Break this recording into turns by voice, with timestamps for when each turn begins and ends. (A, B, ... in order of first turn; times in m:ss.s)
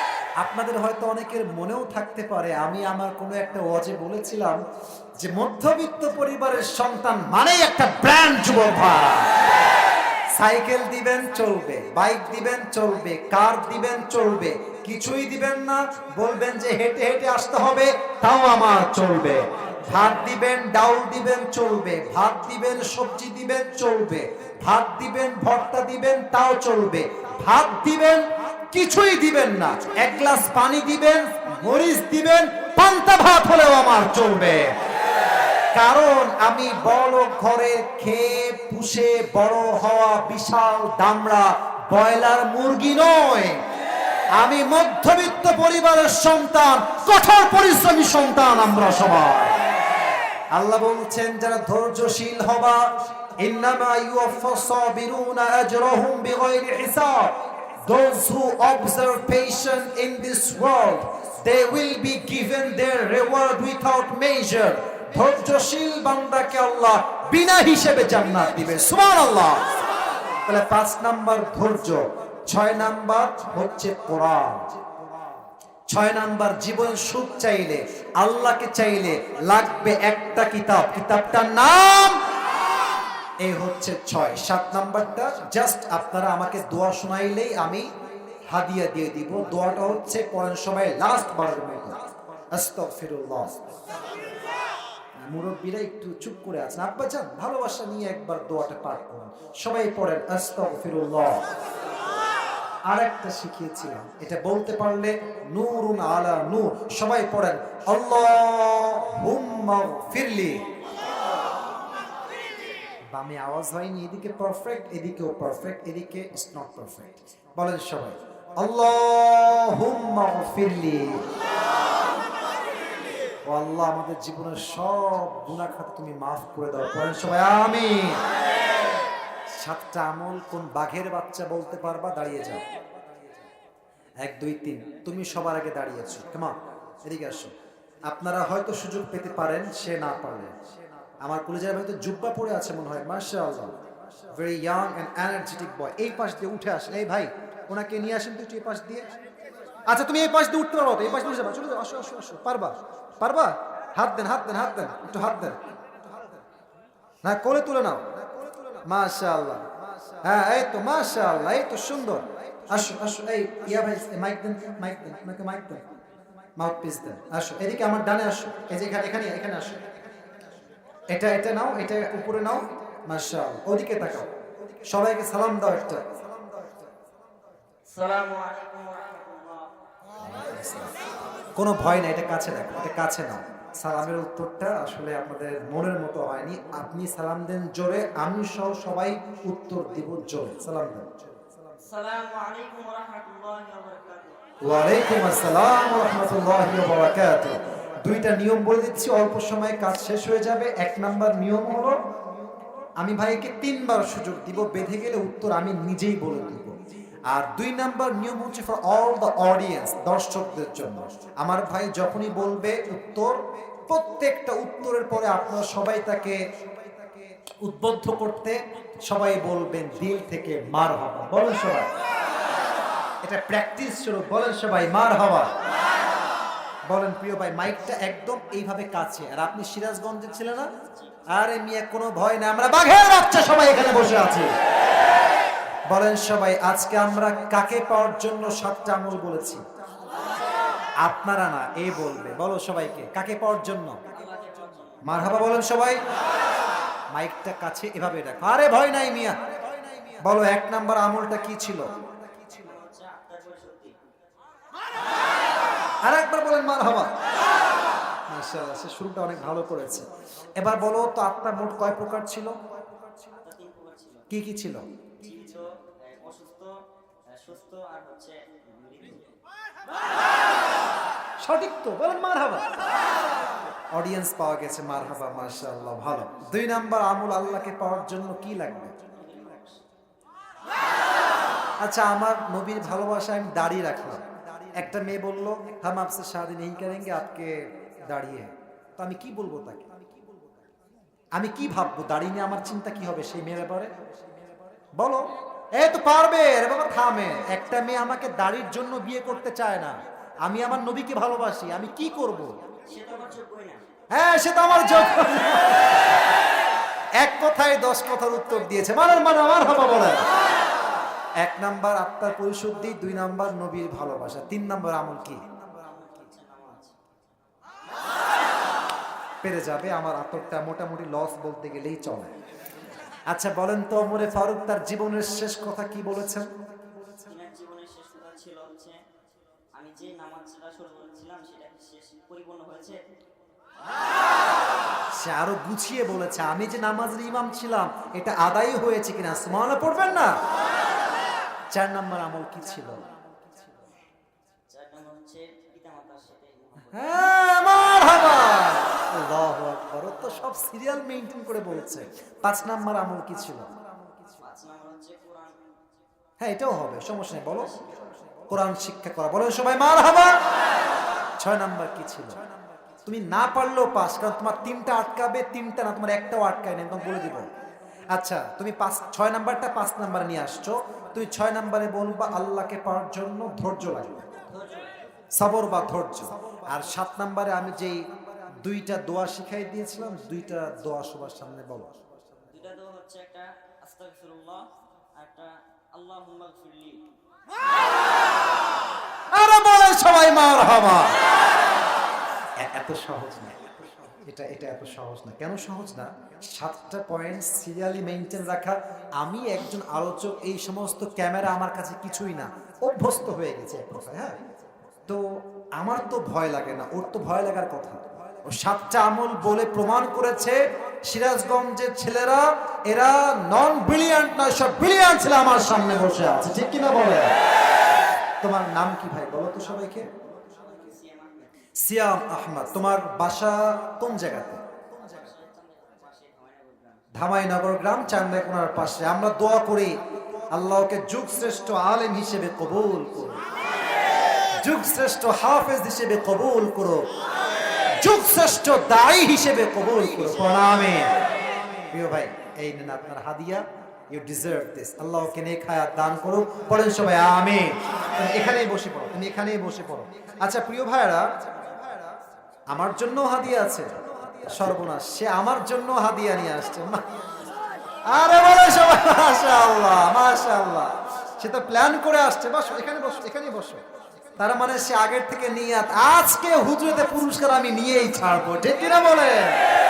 0:00.4-0:04.6 A
0:05.2-0:09.3 A
0:10.3-0:34.7 A
0:35.7-0:43.6 A
0:44.3-0:49.6 A
0:50.5-0:52.8 A
0:53.4-1:09.6 A
1:10.4-1:14.7 A
1:15.9-1:22.2 A
1:23.4-1:27.9 A
1:28.5-1:32.0 A
1:32.5-1:33.7 A
1:35.2-1:41.4 A
1:42.9-1:50.7 A
1:53.1-2:01.2 A
2:03.4-2:08.2 A
2:09.6-2:12.6 A
2:14.2-2:17.5 A
2:18.0-2:20.5 A
2:21.2-2:23.8 A
2:24.3-2:29.1 A
2:29.8-2:35.6 A
2:37.2-2:38.1 A
2:38.8-2:39.7 A
2:40.2-2:45.8 A
2:46.6-2:49.8 A
2:51.1-2:54.3 A
2:54.8-2:56.0 A
2:57.9-2:59.7 B
3:00.2-3:00.9 A
3:01.5-3:11.1 A
3:11.8-3:14.4 B
3:14.6-3:22.0 A
3:23.0-3:26.7 A
3:27.3-3:36.4 A
3:37.6-3:41.9 A
3:43.2-3:45.5 A
3:46.9-3:50.7 A
3:50.7-3:51.3 B
3:51.3-3:54.5 A
3:55.9-3:59.6 A
4:01.0-4:04.0 A
4:04.1-4:05.1 B
4:05.0-4:06.0 A
4:07.1-4:09.4 A
4:10.2-4:11.9 A
4:12.5-4:14.0 B
4:16.0-4:17.1 A
4:18.3-4:22.5 A
4:23.4-4:24.3 B
4:24.3-4:24.8 A
4:25.2-4:26.7 B
4:27.3-4:29.4 B
4:31.4-4:32.6 A
4:33.9-4:38.9 A
4:39.0-4:39.8 B
4:41.8-4:49.9 A
4:51.4-4:53.9 A
4:55.0-5:02.6 A
5:02.9-5:03.8 B
5:04.1-5:06.0 A
5:07.2-5:10.2 A
5:11.4-5:15.4 A
5:15.4-5:17.1 B
5:19.4-5:22.3 A
5:23.3-5:26.5 A
5:27.2-5:29.0 B
5:29.7-5:33.0 B
5:35.2-5:40.4 A
5:41.7-5:43.0 A
5:44.7-5:47.3 B
5:46.9-5:53.7 A
5:54.4-5:55.7 B
5:56.4-5:57.7 A
5:57.5-5:58.0 B
5:58.5-6:00.4 A
6:01.4-6:02.4 A
6:03.0-6:07.5 A
6:08.1-6:14.3 A
6:14.5-6:14.9 B
6:15.4-6:18.0 A
6:18.6-6:21.9 A
6:22.5-6:27.0 B
6:29.3-6:31.2 A
6:32.6-6:44.4 A
6:45.1-6:57.3 A
6:58.4-7:00.1 A
7:00.5-7:01.6 B
7:01.8-7:04.6 A
7:04.9-7:07.1 B
7:07.1-7:09.9 A
7:10.5-7:13.4 A
7:14.6-7:17.0 A
7:18.0-7:21.2 A
7:21.9-7:31.2 A
7:32.7-7:37.0 A
7:38.1-7:43.8 A
7:44.4-7:49.6 A